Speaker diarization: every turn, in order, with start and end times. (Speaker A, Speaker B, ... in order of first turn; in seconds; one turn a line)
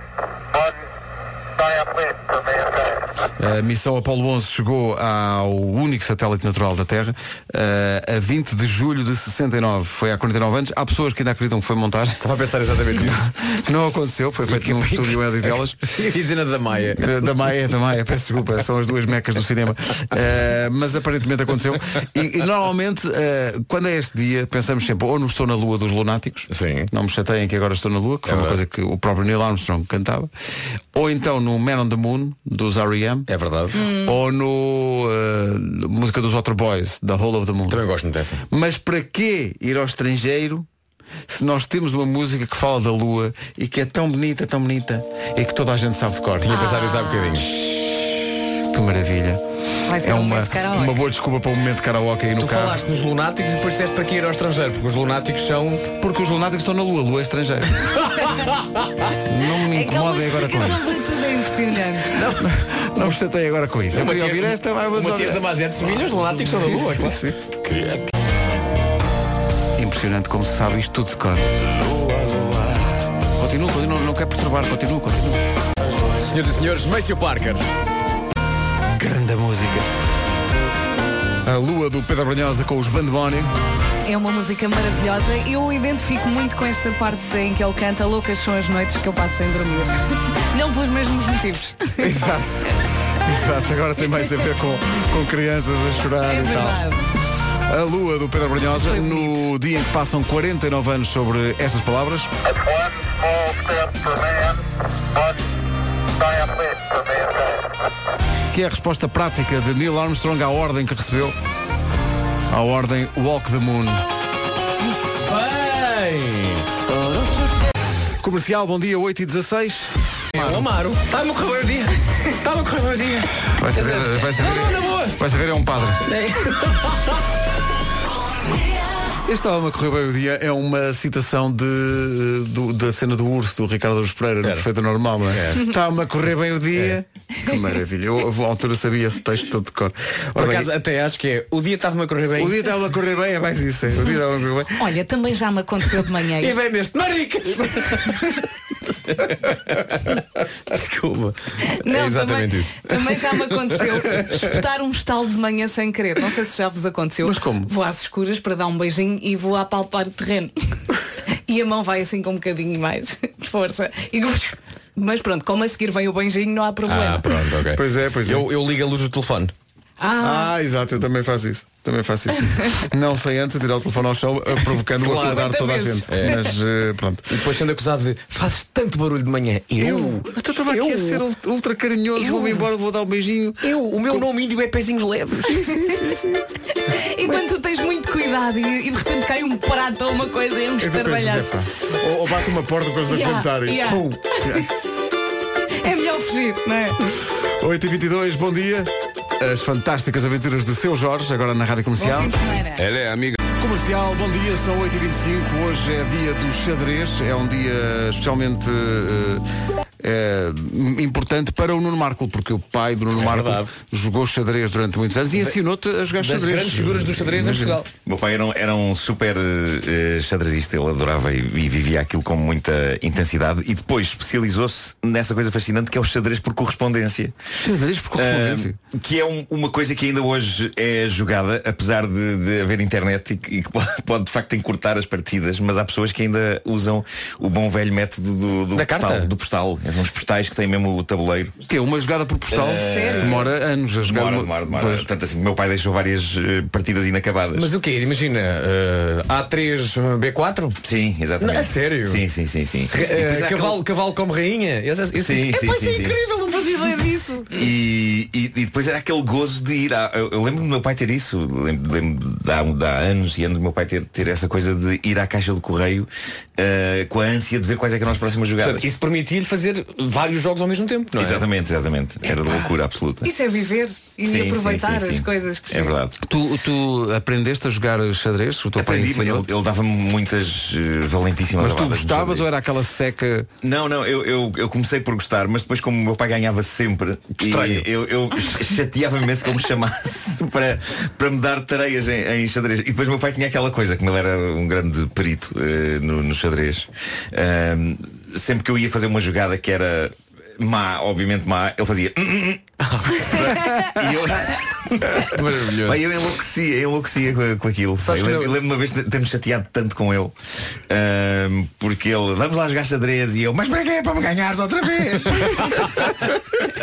Speaker A: 3.4-12.2
Speaker B: 12.2-13.3
Speaker A: 13.0-15.8
Speaker B: 14.5-17.3
Speaker A: 17.0-30.3
Speaker B: 26.5-26.9
Speaker B: 28.3-28.6
Speaker A: 30.9-33.3
Speaker B: 33.3-33.8
Speaker C: 33.7-34.2
Speaker A: 33.8-37.8
Speaker B: 37.7-38.4
Speaker A: 38.5-40.7
Speaker A: 41.3-46.6
Speaker B: 46.4-47.5
Speaker C: 46.5-47.5
Speaker A: 48.7-49.4
Speaker C: 49.9-51.0
Speaker A: 50.0-52.8
Speaker B: 52.4-55.9
Speaker A: 56.0-58.1
Speaker B: 57.8-59.1
Speaker A: 59.2-61.0
Speaker C: 59.6-62.2
Speaker B: 62.1-62.5
Speaker A: 62.4-65.5
Speaker B: 63.9-67.2
Speaker A: 66.2-67.4
Speaker A: 69.8-71.6
Speaker A: 73.2-75.4
Speaker B: 76.1-77.7
Speaker A: 78.9-79.9
Speaker A: 81.5-83.5
Speaker C: 84.1-90.0
Speaker C: 90.5-92.2
Speaker A: 92.0-96.8
Speaker C: 96.2-97.1
Speaker A: 97.7-102.3
Speaker C: 98.8-99.5
Speaker A: 108.5-111.4
Speaker A: 112.5-114.0
Speaker B: 114.9-116.7
Speaker A: 118.2-120.7
Speaker B: 120.3-125.2
Speaker A: 123.5-126.0
Speaker B: 126.0-127.2
Speaker A: 129.2-140.7
Speaker B: 134.4-134.7
Speaker B: 135.3-135.7
Speaker B: 140.4-142.8
Speaker A: 142.3-144.9
Speaker C: 144.8-146.6
Speaker B: 146.4-148.4
Speaker B: 149.1-154.5
Speaker C: 151.7-160.6
Speaker A: 157.2-157.7
Speaker C: 161.5-167.3
Speaker B: 166.9-169.5
Speaker A: 167.7-168.5
Speaker C: 170.0-170.6
Speaker A: 170.2-177.4
Speaker B: 175.0-175.5
Speaker C: 175.2-176.5
Speaker B: 176.1-176.5
Speaker B: 177.3-181.2
Speaker A: 179.8-184.3
Speaker B: 182.2-182.6
Speaker B: 183.6-185.8
Speaker A: 185.4-186.4
Speaker C: 185.7-186.1
Speaker C: 186.9-191.5
Speaker A: 190.8-194.7
Speaker C: 193.1-194.7
Speaker C: 195.8-197.0
Speaker A: 197.4-209.4
Speaker C: 202.0-202.8
Speaker A: 210.0-217.8
Speaker B: 213.2-213.7
Speaker B: 216.2-217.9
Speaker D: 218.1-227.3
Speaker A: 227.6-228.8
Speaker D: 228.2-241.6
Speaker B: 238.7-239.3
Speaker A: 241.7-245.1
Speaker D: 242.5-247.7
Speaker C: 242.8-243.3
Speaker B: 247.5-250.8
Speaker D: 250.8-253.8
Speaker B: 251.4-252.2
Speaker B: 252.9-257.5
Speaker D: 255.2-256.2
Speaker C: 256.6-257.6
Speaker D: 257.5-268.9
Speaker B: 268.6-271.5
Speaker D: 271.2-273.3
Speaker C: 273.2-275.9
Speaker D: 274.2-276.2
Speaker A: 276.2-279.5
Speaker D: 278.8-282.5
Speaker A: 281.6-283.5
Speaker D: 283.6-302.7
Speaker B: 287.4-287.9
Speaker B: 302.8-303.7
Speaker D: 303.2-310.4
Speaker B: 305.1-306.0
Speaker B: 308.0-308.6
Speaker D: 310.9-316.3